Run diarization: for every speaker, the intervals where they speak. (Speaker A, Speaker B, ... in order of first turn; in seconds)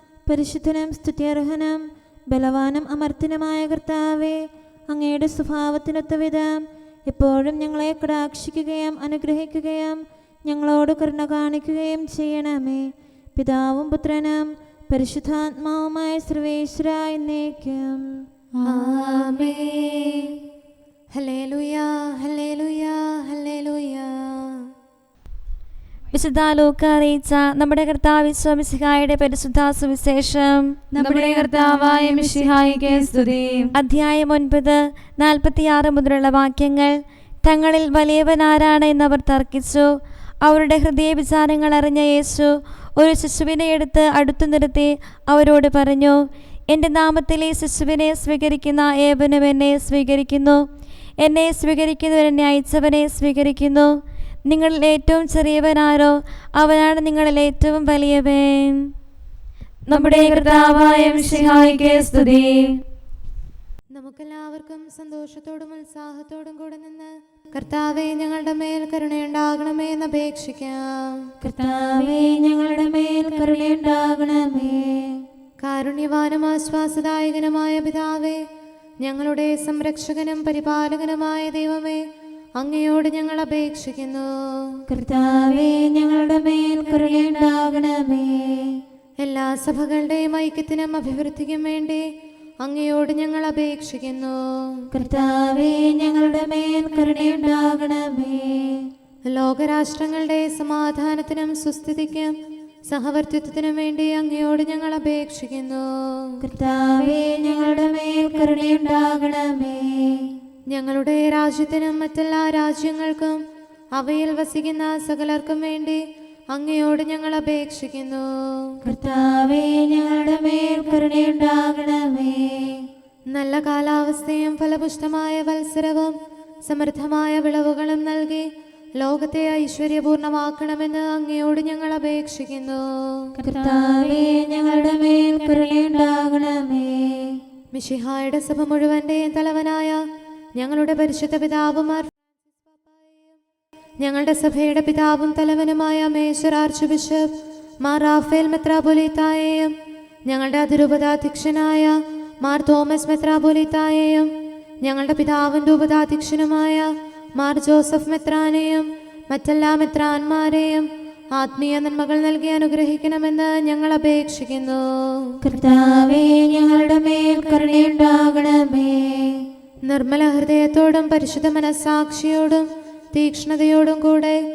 Speaker A: 0.3-18.0, 71.4-75.2, 84.9-88.8, 94.9-98.9, 106.4-110.3, 118.8-122.8, 133.4-137.4, 165.4-169.4
Speaker B: 18.6-20.3, 21.1-24.6, 63.9-71.3, 75.6-78.4, 79.0-82.0, 82.6-84.8, 89.2-92.0, 92.6-94.8, 99.2-102.3, 102.9-106.4, 110.7-113.4, 114.0-118.8, 123.3-133.3, 137.7-140.0, 140.6-143.4, 144.0-147.3, 147.8-149.7, 150.3-154.3, 154.8-165.4, 169.9-174.4
Speaker C: 26.1-30.8, 33.7-36.9, 37.4-39.9, 40.4-50.6, 51.2-53.9, 54.5-58.9, 59.9-62.6
Speaker D: 31.0-33.7